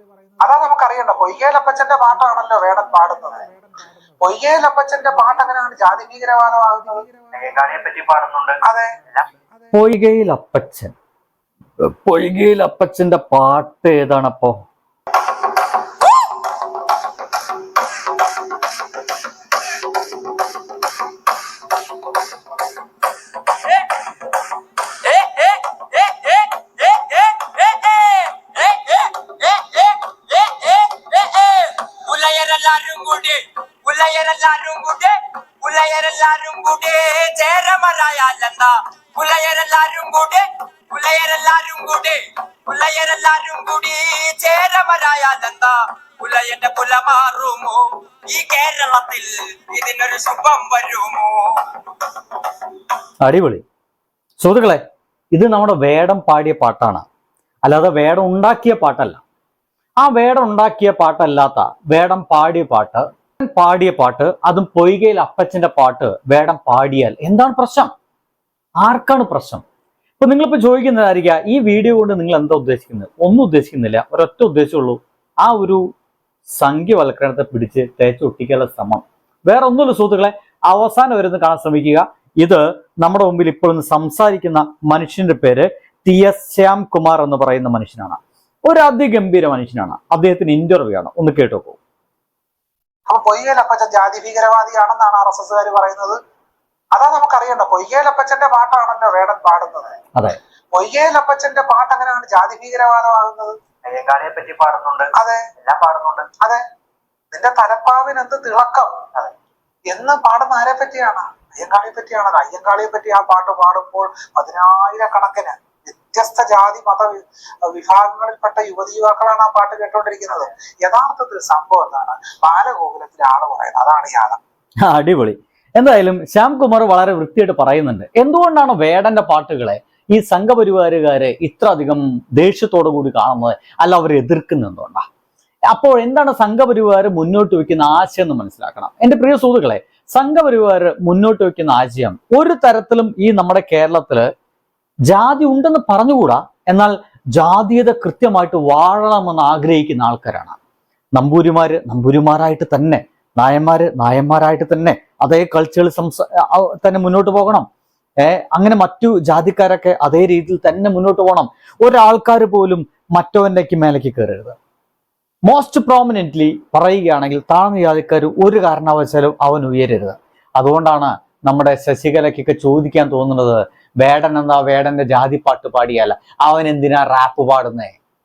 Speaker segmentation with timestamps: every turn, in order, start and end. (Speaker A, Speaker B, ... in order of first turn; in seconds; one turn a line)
Speaker A: 0.4-3.5
Speaker A: 4.2-7.0
Speaker B: 7.3-9.3
Speaker A: 8.6-9.0
Speaker C: 9.7-10.9
Speaker C: 11.8-14.6
Speaker D: 23.5-51.7
Speaker C: 53.2-53.6
Speaker C: 54.4-54.8
Speaker C: 55.3-57.0
Speaker C: 57.6-59.2
Speaker C: 60.0-67.9
Speaker C: 68.8-69.6
Speaker C: 70.2-75.8
Speaker C: 76.5-91.8
Speaker A: 93.1-96.2
Speaker A: 96.9-99.9
Speaker A: 100.7-103.5
Speaker B: 103.8-106.3
Speaker A: 105.1-105.4
Speaker A: 107.3-108.9
Speaker A: 109.9-124.4
Speaker C: 124.8-135.0
Speaker C: 135.7-144.3
Speaker C: 145.1-150.6
Speaker C: 151.2-157.7
Speaker C: 158.2-164.6
Speaker C: 165.5-177.9